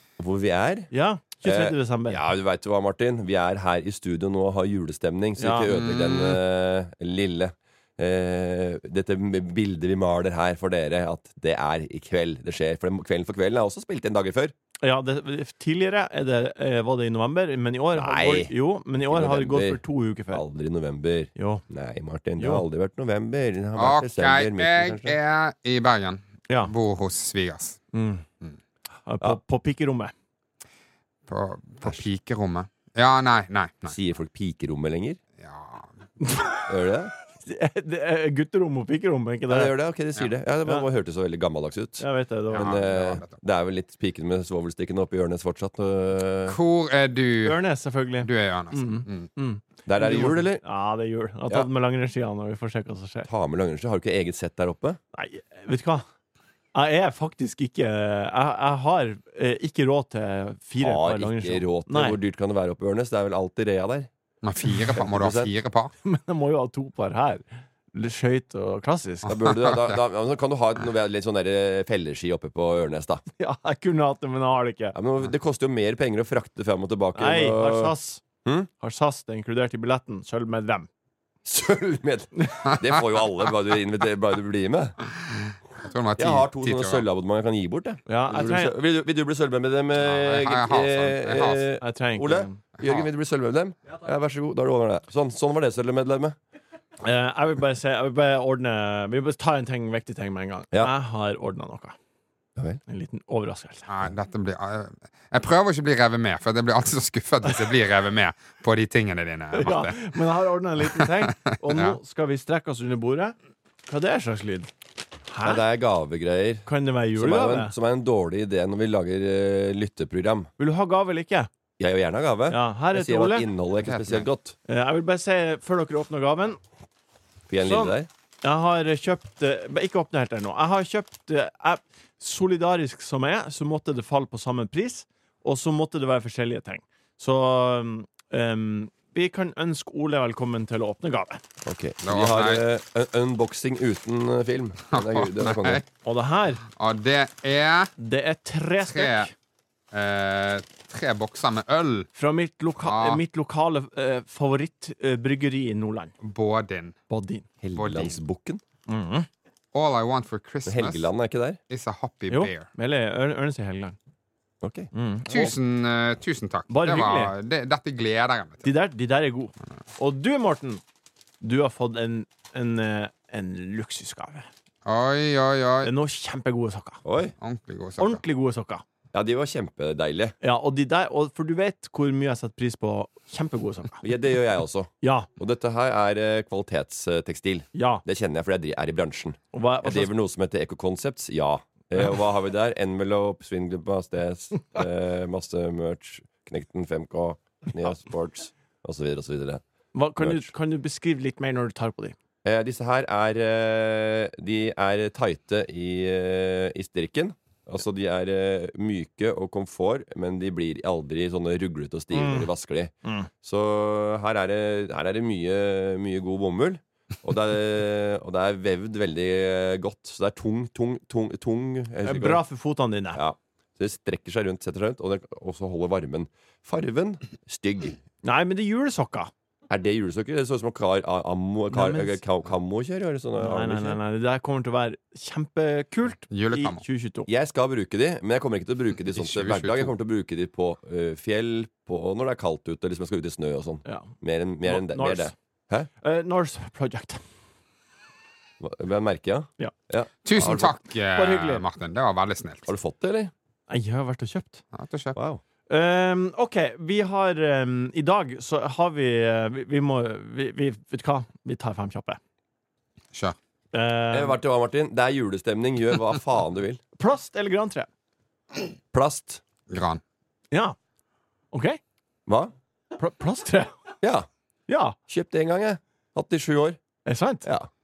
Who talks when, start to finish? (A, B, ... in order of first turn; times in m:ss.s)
0:00.2-0:00.9 A
0:00.9-0:02.2 B
0:01.4-0:14.5 A
0:05.4-0:05.7 B
0:05.7-0:06.4 C
0:14.8-0:20.4 B
0:17.9-0:18.5 A
0:19.1-0:25.1 A
0:21.4-0:21.6 B
0:22.4-0:22.6 B
0:23.8-0:27.8 C
0:27.9-0:28.2 B
0:29.0-0:30.1 B
0:31.3-0:33.9 C
0:33.9-0:35.2 A
0:35.4-0:35.9 C
0:36.2-0:36.6 B
0:36.7-0:37.1 A
0:37.4-0:39.7 B
0:39.5-0:42.0 A
0:42.0-0:42.7 B
0:42.5-0:43.4 C
0:42.5-0:46.6 A
0:46.5-0:47.6 C
0:47.4-0:53.3 B
0:48.2-0:49.3 C
0:49.8-0:50.6 A
0:53.3-0:55.0 A
0:55.1-0:56.0 B
0:56.7-1:02.2 B
1:00.8-1:04.1 A
1:04.4-1:05.9 C
1:05.0-1:05.5 A
1:06.0-1:09.3 B
1:09.3-1:13.2 A
1:09.4-1:10.0 C
1:13.4-1:15.0 B
1:14.9-1:17.9 A
1:17.2-1:18.2 B
1:18.8-1:20.9 B
1:21.4-1:25.0 A
1:25.4-1:27.0 C
1:26.2-1:36.4 A
1:28.1-1:28.7 B
1:30.0-1:31.6 C
1:31.8-1:32.6 B
1:32.8-1:33.1 C
1:37.0-1:41.9 B
1:42.9-1:43.9 B
1:43.9-1:50.0 C
1:49.5-1:53.4 B
1:51.2-1:52.0 C
1:53.9-1:54.7 B
1:55.3-1:55.6 B
1:55.4-2:00.5 A
1:56.6-1:57.7 B
2:00.6-2:01.5 B
2:01.8-2:04.5 A
2:02.5-2:03.5 B
2:03.8-2:04.3 C
2:04.7-2:06.6 B
2:07.5-2:08.1 A
2:07.6-2:21.4 B
2:21.6-2:25.8 A
2:22.0-2:22.6 C
2:24.9-2:25.8 C
2:26.0-2:26.6 B
2:26.7-2:27.9 C
2:28.0-2:29.3 B
2:28.8-2:29.3 C
2:29.9-2:32.1 C
2:32.1-2:36.1 B
2:32.8-2:33.2 C
2:36.2-2:36.9 C
2:37.1-2:37.4 B
2:37.6-2:38.6 A
2:37.8-2:38.2 C
2:38.9-2:39.3 B
2:39.7-2:41.1 C
2:40.6-2:41.6 A
2:41.7-2:42.6 C
2:42.3-2:44.0 B
2:44.6-2:45.5 A
2:44.9-2:45.5 B
2:45.3-2:48.6 C
2:46.7-2:47.3 B
2:48.6-2:50.8 B
2:51.4-2:54.5 B
2:54.8-2:55.9 C
2:55.8-2:57.0 B
2:57.0-2:57.3 A
2:57.4-2:58.2 C
2:58.0-2:58.8 B
2:59.1-3:00.3 A
3:00.4-3:04.0 B
3:04.0-3:19.6 A
3:05.0-3:05.3 B
3:07.7-3:08.0 B
3:09.5-3:10.1 B
3:19.9-3:22.2 B
3:20.2-3:20.5 A
3:22.4-3:42.4 A
3:32.1-3:32.5 B
3:33.0-3:33.3 B
3:42.0-3:43.2 B
3:43.1-3:48.0 A
3:48.2-3:49.3 B
3:49.7-3:54.0 A
3:51.7-3:52.2 B
3:53.4-3:57.3 B
3:56.3-3:56.8 C
3:57.3-4:05.9 A
3:59.1-3:59.9 B
4:03.8-4:04.1 B
4:04.6-4:05.3 B
4:06.0-4:07.2 B
4:08.6-4:10.8 A
4:10.2-4:12.7 C
4:11.1-4:11.6 B
4:12.7-4:13.3 A
4:13.7-4:14.6 B
4:14.7-4:15.2 C
4:15.2-4:15.4 A
4:15.7-4:22.2 B
4:23.7-4:24.4 B
4:24.1-4:26.8 A
4:27.0-4:27.9 B
4:28.9-4:29.4 A
4:29.7-4:30.0 C
4:31.5-4:31.8 B
4:32.3-4:32.5 A
4:33.0-4:33.9 B
4:34.0-4:34.3 A
4:34.7-4:35.0 B
4:35.1-4:36.8 A
4:37.0-4:37.5 B
4:37.4-4:37.7 A